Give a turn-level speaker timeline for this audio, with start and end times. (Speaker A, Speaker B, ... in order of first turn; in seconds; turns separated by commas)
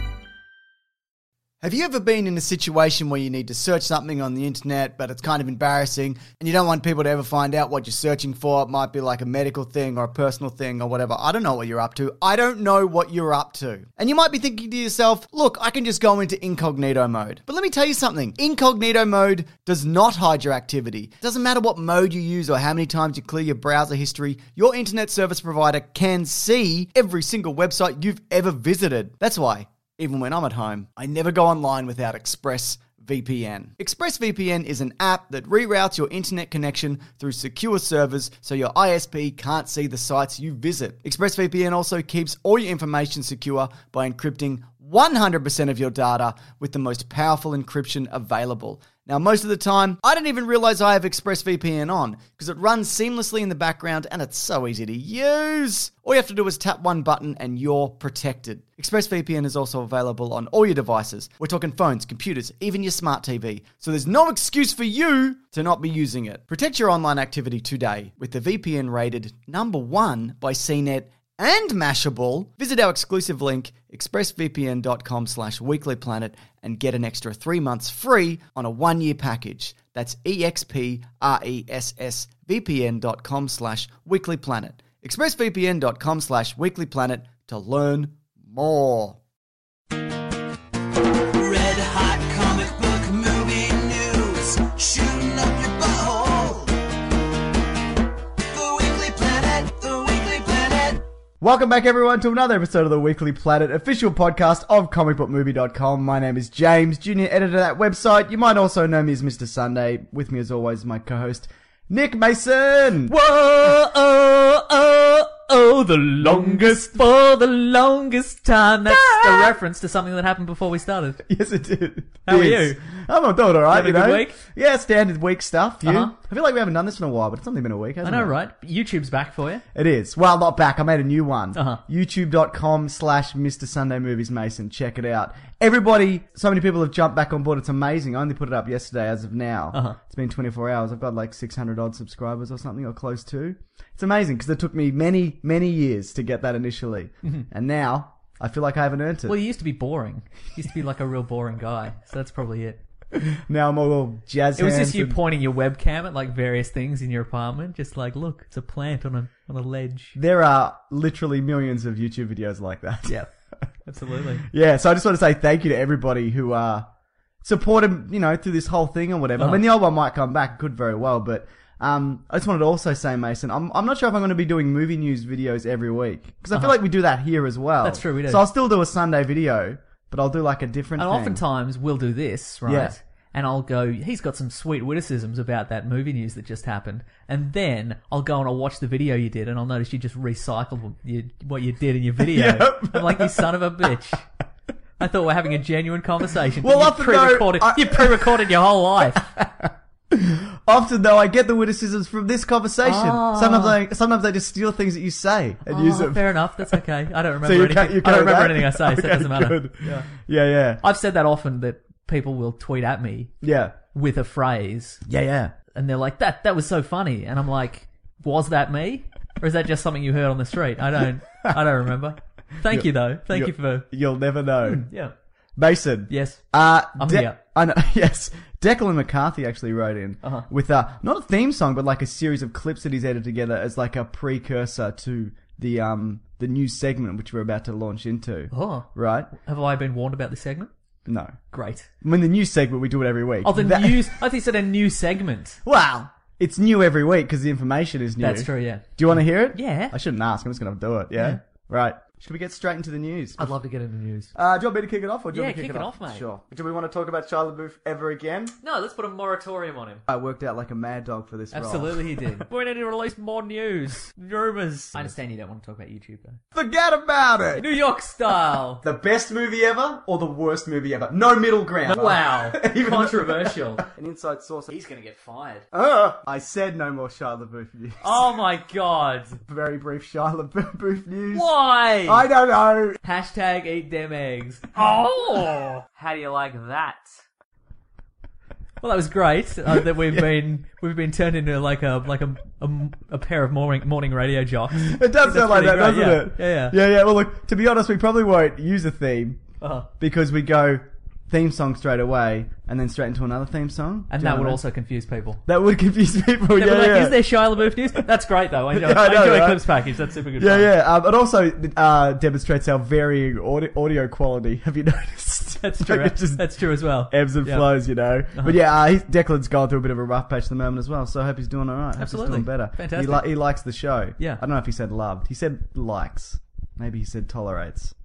Speaker A: 1.6-89.2, Speaker B: 91.3-96.7, Speaker B: 98.5-101.0, Speaker A: 101.4-113.1, Speaker C: 113.1-121.2, Speaker A: 116.2-117.0, Speaker A: 118.9-119.6, Speaker A: 121.2-128.4, Speaker C: 122.2-122.8, Speaker C: 123.7-124.4, Speaker C: 125.8-126.1, Speaker C: 128.0-129.6, Speaker A: 129.7-149.4, Speaker C: 131.5-131.8, Speaker C: 149.2-152.8, Speaker A: 153.1-155.2, Speaker C: 154.6-160.2, Speaker A: 160.2-163.2, Speaker C: 163.8-164.4, Speaker A: 164.4-166.9, Speaker A: 167.4-181.4, Speaker C: 177.8-178.4, Speaker C: 181.0-194.2, Speaker A: 182.7-183.0, Speaker A: 192.2-193.5, Speaker C: 195.0-199.3, Speaker A: 196.6-206.8, Speaker C: 202.8-203.8, Speaker C: 205.7-210.1, Speaker A: 207.4-210.8, Speaker C: 210.8-213.3, Speaker A: 213.4-213.7, Speaker C: 213.9-215.0, Speaker A: 215.1-215.5, Speaker C: 215.7-223.9, Speaker A: 222.6-224.9, Speaker C: 224.6-225.1, Speaker A: 225.6-239.3, Speaker C: 226.1-226.4, Speaker C: 226.9-227.4, Speaker C: 238.5-240.7, Speaker A: 241.1-241.4, Speaker C: 241.5-241.9, Speaker A: 242.0-244.2, Speaker C: 243.4-245.6, Speaker A: 245.6-253.5, Speaker C: 248.2-249.9, Speaker C: 253.4-254.3, Speaker A: 254.3-258.6, Speaker C: 255.3-256.2, Speaker C: 258.6-260.0, Speaker A: 260.1-262.4, Speaker C: 261.5-266.4, Speaker A: 266.5-267.7, Speaker C: 267.5-268.8, Speaker A: 268.8-274.7, Speaker C: 271.9-273.9, Speaker C: 274.7-275.6, Speaker A: 275.7-278.2, Speaker C: 278.0-279.4, Speaker A: 279.4-281.5, Speaker C: 281.3-282.2, Speaker A: 282.0-283.0, Speaker C: 283.0-287.0, Speaker C: 288.8-296.8, Speaker A: 294.8-299.4, Speaker C: 299.6-299.9, Speaker A: 300.0-304.6, Speaker C: 304.1-305.4, Speaker A: 305.4-308.0, Speaker C: 306.6-310.7, Speaker A: 308.7-309.8, Speaker A: 310.4-327.9, Speaker C: 315.6-317.8, Speaker C: 322.0-323.3